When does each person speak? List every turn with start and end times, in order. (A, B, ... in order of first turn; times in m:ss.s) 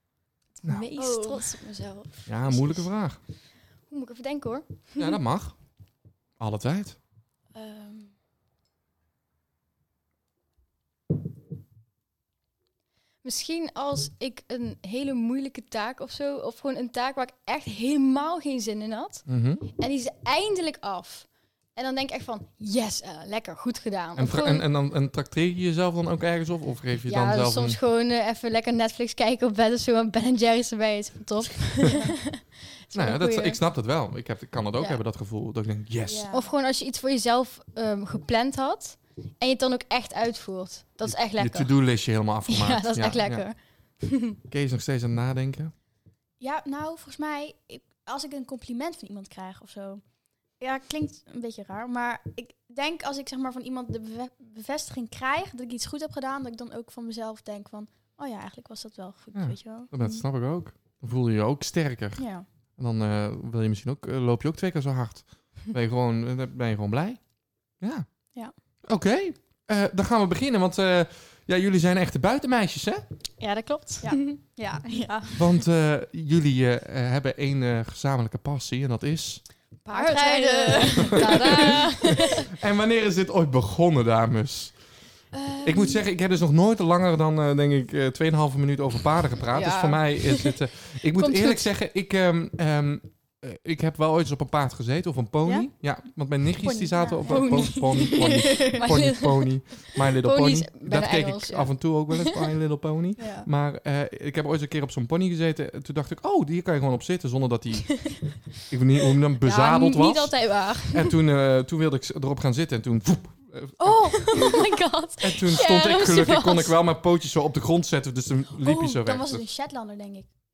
0:00.6-0:02.8 A
0:01.0-0:02.6 B
0:02.2-0:03.2 C
0:03.9-0:05.2 A
0:05.0-0:05.6 C
0:06.4-0:07.0 C
0:07.5-0:08.1 B
0:13.2-0:24.6 A
0:19.3-0:19.6 C
0:24.2-0:27.8 C
0:27.1-0:33.6 A
0:32.9-0:36.3 C
0:36.0-0:36.5 B
0:36.3-0:41.8 A
0:41.0-0:43.4 C
0:42.5-0:44.4 A
0:44.5-0:45.7 C
0:46.4-0:50.0 B
0:50.6-1:00.2 B
0:59.3-1:13.0 C
1:02.2-1:02.4 B
1:13.4-1:14.3 A
1:14.0-1:15.4 B
1:15.4-1:19.4 C
1:19.8-1:22.4 A
1:19.9-1:21.8 B
1:21.2-1:21.9 C
1:22.6-1:24.8 C
1:25.3-1:26.0 B
1:25.6-1:54.4 C
1:29.5-1:30.5 A
1:31.1-1:31.7 A
1:36.6-1:38.9 B
1:37.2-1:42.2 A
1:43.2-1:43.5 B
1:49.4-1:51.1 A
1:53.8-1:54.8 B
1:54.2-1:56.7 A
1:55.2-1:59.4 C
1:58.6-2:00.3 B